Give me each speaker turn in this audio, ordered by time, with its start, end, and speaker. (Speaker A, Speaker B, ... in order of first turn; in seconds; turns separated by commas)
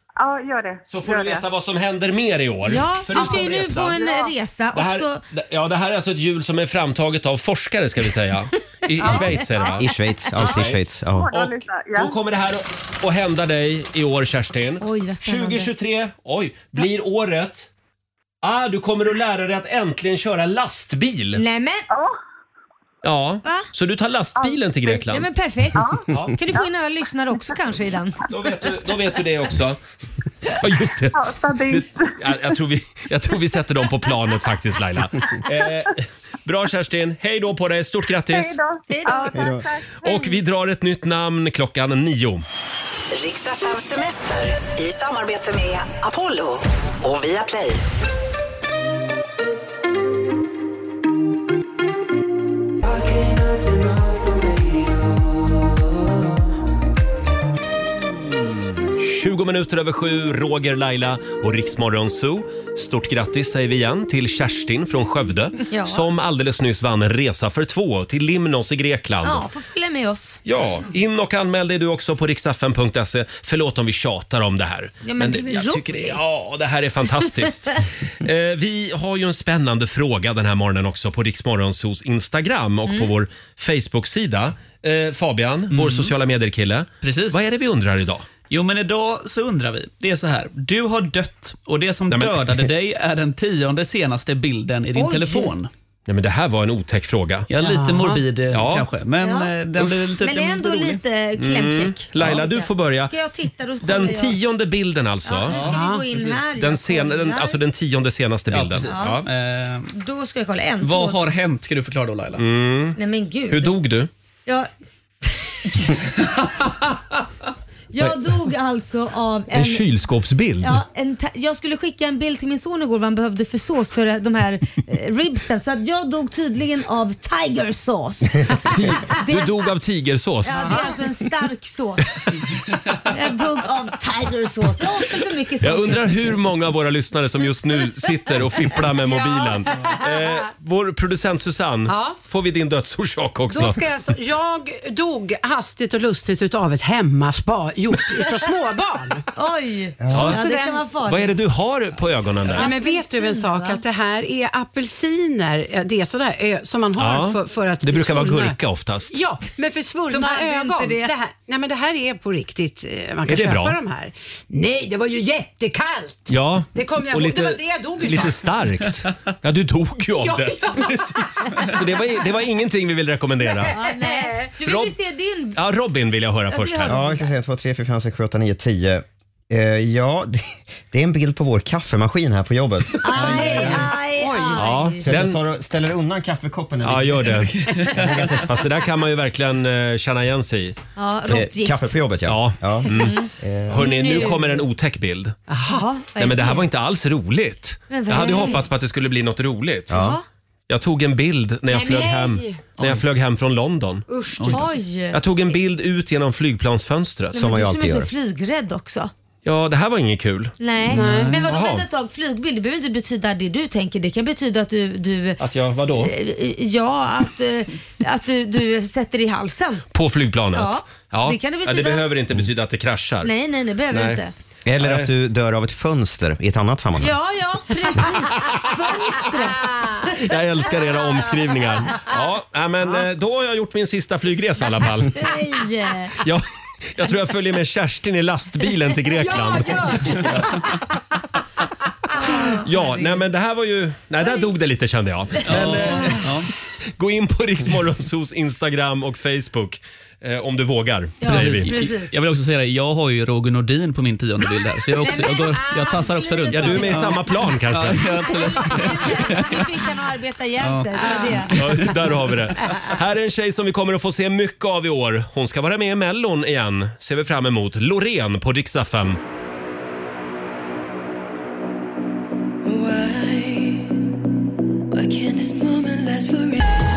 Speaker A: 0.2-1.4, Speaker B: 0.9-4.0, Speaker C: 2.6-5.2, Speaker A: 3.9-4.3, Speaker B: 4.7-17.7, Speaker C: 9.0-9.8, Speaker D: 9.7-11.3, Speaker A: 11.1-12.2, Speaker C: 14.8-15.7, Speaker B: 18.4-21.4, Speaker C: 21.4-21.9, Speaker A: 21.9-22.2, Speaker B: 23.0-25.3, Speaker A: 24.4-25.0, Speaker C: 25.1-28.2, Speaker A: 25.8-26.6, Speaker B: 26.1-26.4, Speaker B: 28.3-29.8, Speaker B: 30.5-38.6, Speaker A: 31.1-32.4, Speaker A: 38.3-40.4, Speaker C: 38.9-39.6, Speaker D: 39.3-39.6, Speaker B: 40.0-42.4, Speaker E: 43.1-47.8, Speaker B: 58.8-69.5, Speaker C: 65.6-66.0, Speaker C: 69.2-70.4, Speaker B: 70.5-88.3, Speaker C: 75.0-76.2, Speaker F: 85.7-86.1, Speaker F: 87.0-87.4, Speaker F: 88.5-95.7, Speaker B: 92.1-92.6, Speaker C: 94.9-95.5, Speaker B: 96.1-97.5, Speaker F: 97.5-101.0, Speaker G: 97.6-98.2, Speaker B: 98.5-98.9, Speaker C: 99.2-99.5, Speaker C: 100.2-104.4, Speaker B: 101.4-103.1, Speaker B: 103.8-105.6, Speaker C: 105.2-107.6, Speaker F: 105.5-106.4, Speaker G: 105.6-106.0, Speaker B: 106.6-109.3, Speaker F: 108.5-109.9, Speaker C: 108.9-109.2, Speaker C: 109.9-111.2, Speaker F: 110.8-112.4, Speaker B: 112.4-113.0, Speaker C: 113.0-113.8, Speaker B: 113.5-114.1, Speaker C: 115.2-115.6, Speaker C: 117.9-119.8, Speaker B: 119.5-120.8, Speaker C: 120.6-129.5, Speaker B: 128.6-130.9, Speaker C: 130.4-132.1, Speaker C: 133.1-136.1, Speaker B: 135.6-143.8, Speaker C: 139.1-139.6, Speaker G: 141.9-142.2, Speaker G: 143.5-149.3, Speaker C: 149.3-151.3, Speaker B: 150.1-150.4, Speaker G: 150.1-150.8, Speaker B: 151.1-152.7, Speaker C: 152.5-153.8, Speaker G: 152.5-158.6, Speaker B: 157.0-159.1, Speaker G: 159.1-168.6, Speaker C: 160.1-161.1, Speaker B: 163.3-163.8, Speaker B: 166.3-173.8, Speaker G: 170.2-171.7, Speaker C: 173.7-175.6, Speaker G: 174.0-174.5, Speaker B: 174.6-174.9, Speaker B: 175.6-177.0, Speaker C: 176.5-177.2, Speaker D: 176.9-188.5, Speaker C: 183.0-185.0, Speaker B: 184.6-185.4, Speaker B: 186.8-187.6, Speaker F: 187.8-188.3, Speaker B: 188.4-190.8, Speaker C: 190.9-191.9, Speaker D: 191.3-193.9, Speaker B: 192.3-195.4, Speaker C: 192.9-194.6, Speaker G: 195.5-195.9, Speaker C: 195.7-196.6, Speaker B: 196.2-200.1, Speaker C: 197.9-198.6, Speaker D: 199.9-200.2, Speaker C: 199.9-200.2, Speaker B: 200.7-204.1, Speaker C: 201.7-202.5, Speaker G: 201.9-202.3, Speaker G: 204.1-204.6, Speaker F: 204.4-204.6, Speaker C: 204.5-205.2, Speaker B: 205.1-207.4, Speaker C: 207.3-209.1, Speaker D: 207.3-208.1, Speaker B: 209.4-210.6, Speaker C: 210.6-215.4, Speaker G: 210.9-211.4, Speaker F: 210.9-211.4, Speaker B: 211.4-211.9, Speaker B: 215.4-216.1, Speaker C: 216.0-219.8, Speaker B: 219.9-223.3, Speaker C: 220.5-222.1, Speaker C: 223.2-224.3, Speaker B: 223.9-224.2, Speaker D: 224.7-227.1, Speaker B: 224.8-225.1, Speaker C: 227.0-230.3, Speaker B: 230.0-235.2, Speaker C: 235.1-236.2, Speaker B: 236.2-240.6, Speaker G: 239.3-240.3, Speaker C: 242.1-243.2, Speaker B: 242.5-246.3, Speaker C: 244.2-244.5, Speaker C: 245.4-246.2, Speaker F: 245.4-246.5, Speaker B: 247.0-251.7, Speaker C: 251.2-252.1, Speaker F: 251.2-259.8, Speaker C: 255.0-257.2, Speaker B: 256.5-258.3, Speaker C: 258.2-261.9, Speaker F: 260.6-262.9, Speaker B: 261.5-269.2